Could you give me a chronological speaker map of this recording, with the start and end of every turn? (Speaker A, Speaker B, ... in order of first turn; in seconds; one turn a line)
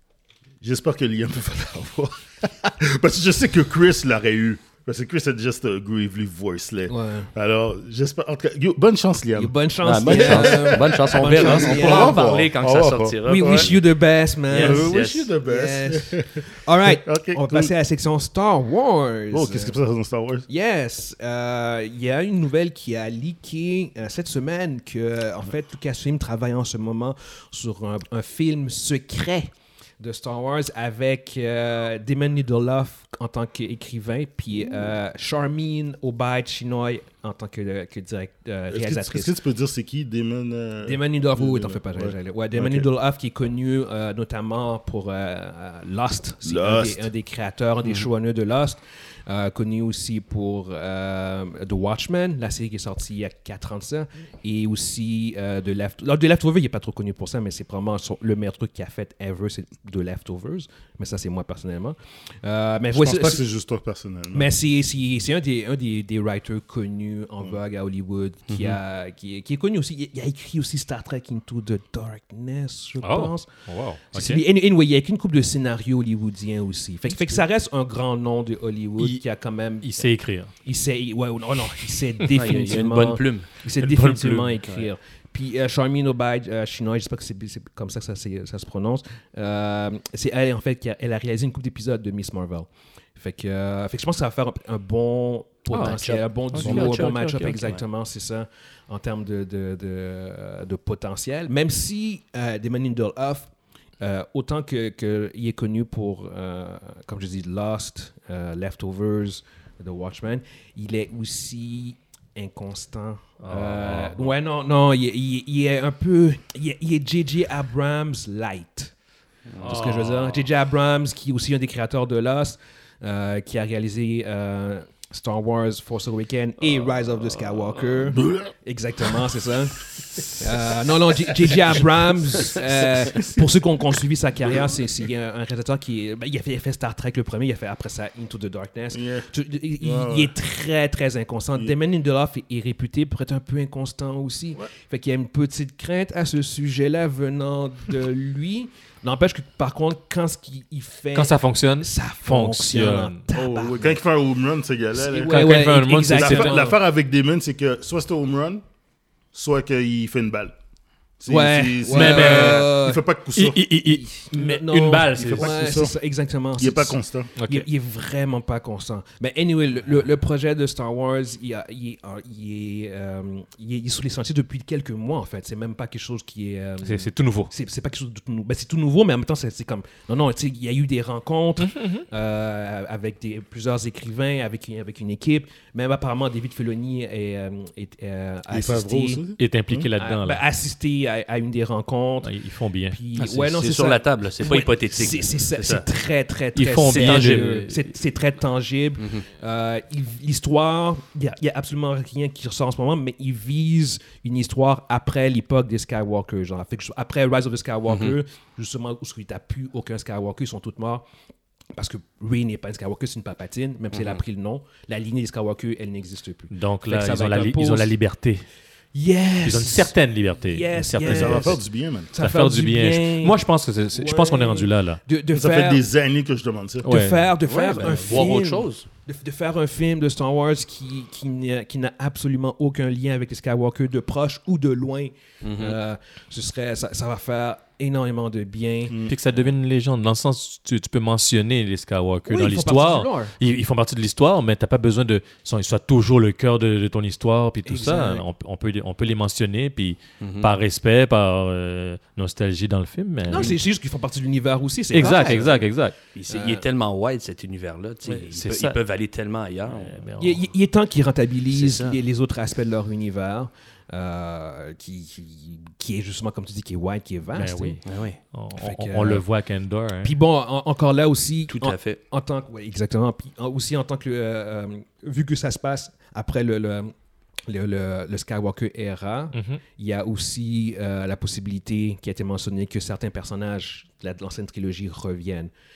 Speaker A: 0.6-13.7
Speaker B: 6.9-7.3
Speaker B: 9.3-12.2
Speaker C: 9.8-13.8
Speaker B: 13.2-19.8
Speaker C: 14.5-15.3
Speaker A: 14.5-17.7
Speaker A: 19.3-20.4
Speaker B: 20.5-39.3
Speaker A: 38.7-42.9
Speaker B: 40.8-63.4
Speaker A: 46.4-47.1
Speaker A: 62.9-64.5
Speaker B: 64.3-73.5
Speaker C: 68.5-68.8
Speaker D: 73.0-74.4
Speaker B: 74.1-80.1
Speaker D: 79.8-80.5
Speaker B: 80.6-118.9
Speaker C: 82.3-83.5
Speaker D: 83.7-84.6
Speaker C: 95.8-97.8
Speaker D: 96.5-97.3
Speaker D: 113.4-114.3
Speaker D: 119.6-120.5
Speaker B: 119.6-154.0
Speaker A: 128.1-128.5
Speaker A: 133.1-133.4
Speaker A: 134.5-134.7
Speaker A: 138.9-139.3
Speaker A: 139.8-140.3
Speaker D: 151.1-153.2
Speaker A: 153.3-158.6
Speaker B: 154.9-156.8
Speaker D: 155.2-156.7
Speaker A: 159.3-160.5
Speaker A: 161.2-163.6
Speaker B: 161.3-163.0
Speaker D: 161.9-162.8
Speaker D: 163.3-165.6
Speaker B: 163.8-189.2
Speaker A: 165.2-165.9
Speaker A: 166.6-167.3
Speaker D: 167.4-167.7
Speaker D: 176.8-177.5
Speaker D: 181.6-182.0
Speaker A: 188.5-189.9
Speaker D: 189.4-190.4
Speaker B: 190.0-192.3
Speaker D: 192.2-193.0
Speaker B: 192.9-211.0
Speaker C: 193.2-195.8
Speaker D: 196.6-197.9
Speaker C: 196.9-197.4
Speaker C: 207.9-208.1
Speaker B: 211.7-217.9
Speaker C: 213.9-214.2
Speaker D: 216.5-218.4
Speaker B: 218.9-221.6
Speaker D: 219.4-221.6
Speaker A: 221.0-222.1
Speaker B: 222.1-223.4
Speaker D: 222.1-225.0
Speaker B: 223.9-225.8
Speaker A: 225.3-226.9
Speaker D: 226.8-227.3
Speaker B: 226.8-239.0
Speaker C: 227.4-228.8
Speaker C: 235.4-235.8
Speaker A: 238.9-239.1
Speaker D: 239.0-253.6
Speaker B: 242.2-243.3
Speaker B: 247.6-248.2
Speaker C: 250.2-250.5
Speaker B: 253.2-255.7
Speaker D: 254.9-255.9
Speaker C: 255.0-255.4
Speaker C: 256.1-260.0
Speaker B: 256.3-256.6
Speaker D: 258.1-258.8
Speaker D: 259.7-260.4
Speaker B: 260.2-267.8
Speaker C: 261.5-262.0
Speaker D: 267.3-270.1
Speaker C: 267.9-268.2
Speaker B: 268.5-269.2
Speaker B: 270.0-276.9
Speaker C: 271.5-272.0
Speaker B: 277.5-285.5
Speaker D: 279.3-279.6